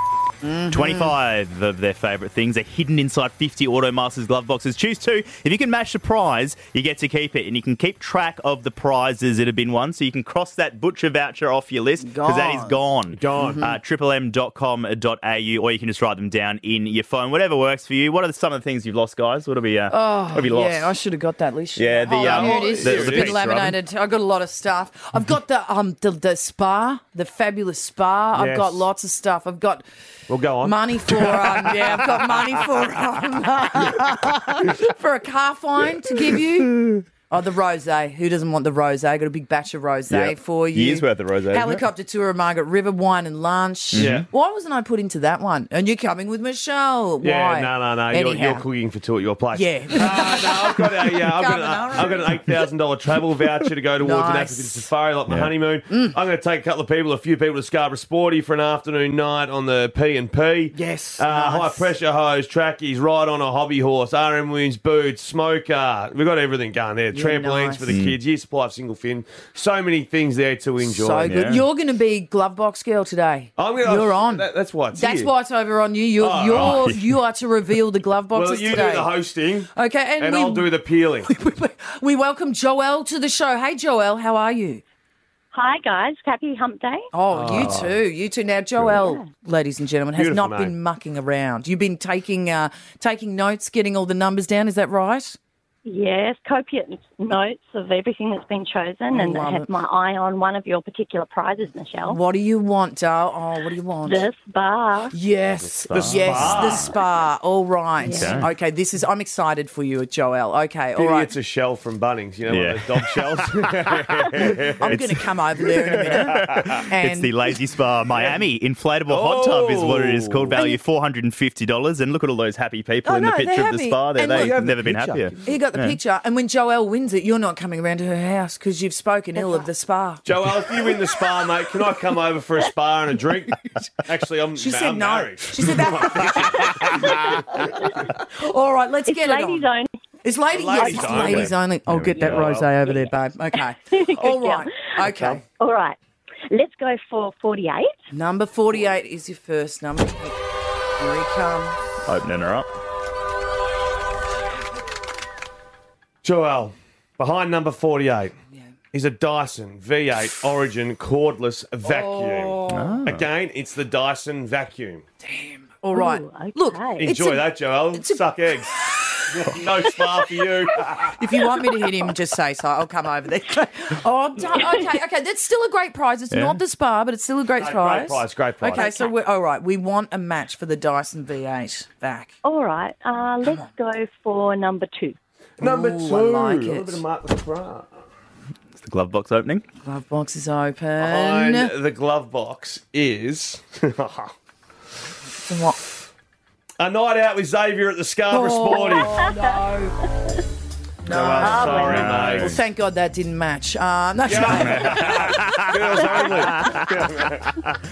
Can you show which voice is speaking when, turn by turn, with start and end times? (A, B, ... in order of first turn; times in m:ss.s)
0:00.4-0:01.1 A
0:00.7-0:20.9 B
0:12.0-0:12.8 A
0:13.2-0:13.6 C
0:13.4-0:13.8 A
0:19.9-0:29.8 A
0:21.8-0:23.8 B
0:22.1-0:23.4 C
0:28.4-0:28.9 C
0:30.3-0:32.4 C
0:30.6-0:48.6 A
0:36.7-0:37.0 B
0:40.1-0:41.8 B
0:43.9-0:44.3 B
0:44.0-0:44.3 C
0:47.2-1:11.4 C
0:49.5-0:52.5 A
0:54.0-0:54.9 A
0:55.9-0:56.2 A
1:00.7-1:01.9 A
1:07.1-1:07.9 A
1:07.9-1:08.2 B
1:10.8-1:19.1 A
1:11.2-1:11.6 B
1:13.6-1:15.3 C
1:16.2-1:17.0 C
1:16.5-1:17.0 B
1:18.3-1:21.3 C
1:19.8-1:20.7 A
1:21.3-1:24.8 A
1:25.5-1:27.1 D
1:27.1-1:35.4 A
1:27.3-1:28.0 C
1:28.9-1:29.2 D
1:30.2-1:30.8 C
1:35.8-1:42.2 D
1:39.1-1:39.7 A
1:42.1-1:44.2 A
1:44.0-1:45.1 D
1:45.1-1:51.3 A
1:45.9-1:46.9 B
1:46.0-1:46.9 C
1:48.0-1:48.4 D
1:48.0-1:48.5 B
1:51.0-1:55.0 C
1:52.5-1:55.2 B
1:54.8-1:57.4 A
1:55.9-2:06.0 B
1:58.1-1:58.4 C
1:59.1-2:00.6 C
2:03.0-2:04.6 A
2:04.2-2:05.4 C
2:05.4-2:10.2 A
2:10.2-2:17.1 C
2:14.6-2:17.0 A
2:18.2-2:19.7 A
2:19.0-2:19.9 D
2:20.2-2:25.4 A
2:20.5-2:21.5 C
2:20.7-2:21.4 D
2:21.1-2:22.7 B
2:23.9-2:24.7 D
2:25.1-2:25.4 C
2:25.6-2:26.0 D
2:26.5-2:27.9 D
2:28.1-2:30.4 A
2:31.0-2:31.8 A
2:32.1-2:32.7 B
2:36.2-2:38.3 C
2:38.9-2:45.0 C
2:41.8-2:43.0 A
2:42.7-2:43.3 B
2:45.2-2:48.2 A
2:45.9-2:47.1 D
2:47.0-2:51.2 C
2:51.2-3:02.3 A
2:54.5-2:55.0 D
2:56.3-2:56.6 B
2:57.6-2:58.9 C
2:58.7-2:59.1 D
3:02.4-3:05.2 D
3:05.6-3:07.9 C
3:05.6-3:07.0 A
3:08.8-3:09.6 B
3:09.8-3:11.7 A
3:11.0-3:14.3 C
3:15.4-3:15.8 A
3:16.8-3:19.1 C
3:18.3-3:20.0 A
3:18.7-3:19.4 D
3:21.0-3:25.4 A
3:21.1-3:22.6 C
3:21.4-3:22.0 D
3:21.7-3:22.6 B
3:24.3-3:27.8 C
3:24.6-3:27.3 B
3:26.0-3:26.5 A